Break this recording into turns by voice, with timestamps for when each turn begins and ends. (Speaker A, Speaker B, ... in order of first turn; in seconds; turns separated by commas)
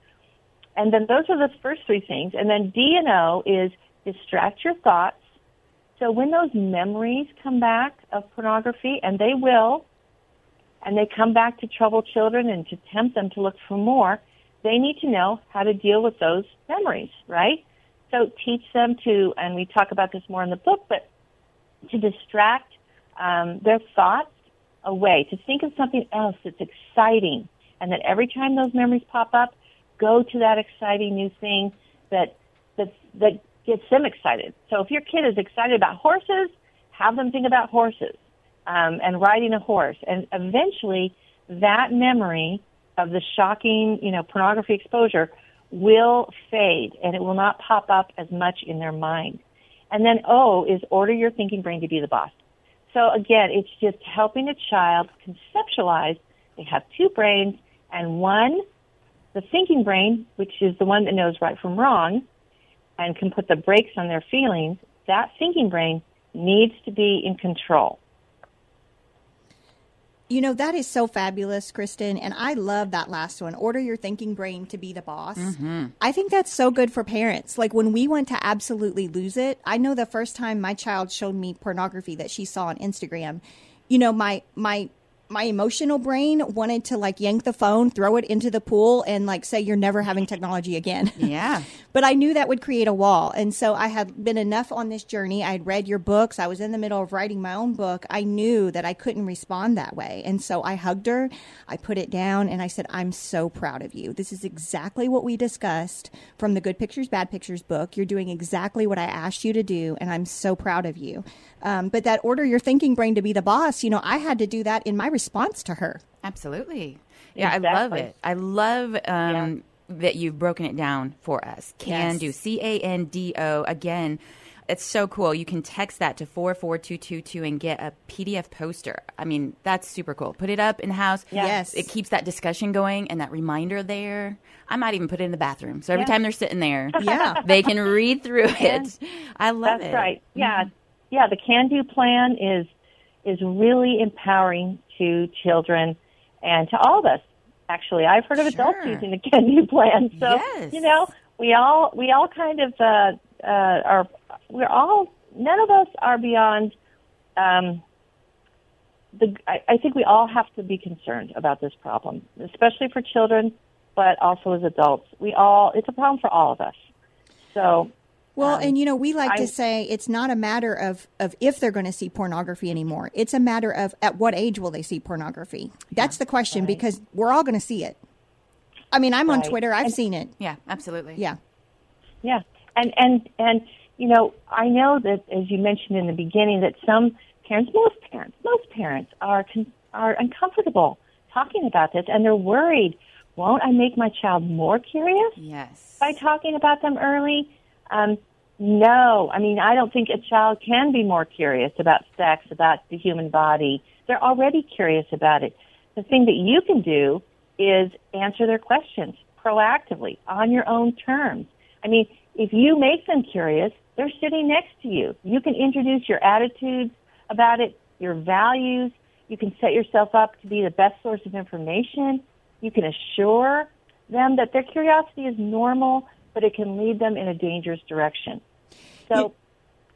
Speaker A: 0.8-5.2, Speaker A: 6.0-9.8, Speaker A: 10.8-21.1, Speaker A: 21.9-24.3, Speaker A: 24.8-52.3, Speaker A: 52.9-58.6, Speaker A: 59.3-62.2, Speaker A: 63.0-68.0, Speaker B: 70.3-91.3, Speaker C: 75.4-75.9, Speaker C: 91.2-91.7, Speaker B: 91.9-116.0, Speaker C: 116.2-140.7, Speaker A: 117.4-118.1, Speaker B: 121.8-122.2, Speaker B: 131.4-131.9, Speaker A: 137.0-137.4, Speaker B: 137.0-137.4, Speaker A: 138.6-138.9, Speaker A: 139.7-142.7, Speaker A: 143.2-156.7, Speaker C: 148.4-149.1, Speaker C: 150.2-150.9, Speaker A: 157.4-157.8, Speaker A: 159.1-166.8, Speaker A: 167.5-168.7, Speaker B: 168.4-178.0, Speaker A: 169.2-169.5, Speaker A: 176.6-176.8, Speaker B: 178.9-180.4, Speaker A: 179.3-179.9, Speaker C: 180.4-181.2, Speaker A: 182.2-195.4, Speaker C: 195.4-196.2, Speaker A: 196.0-228.4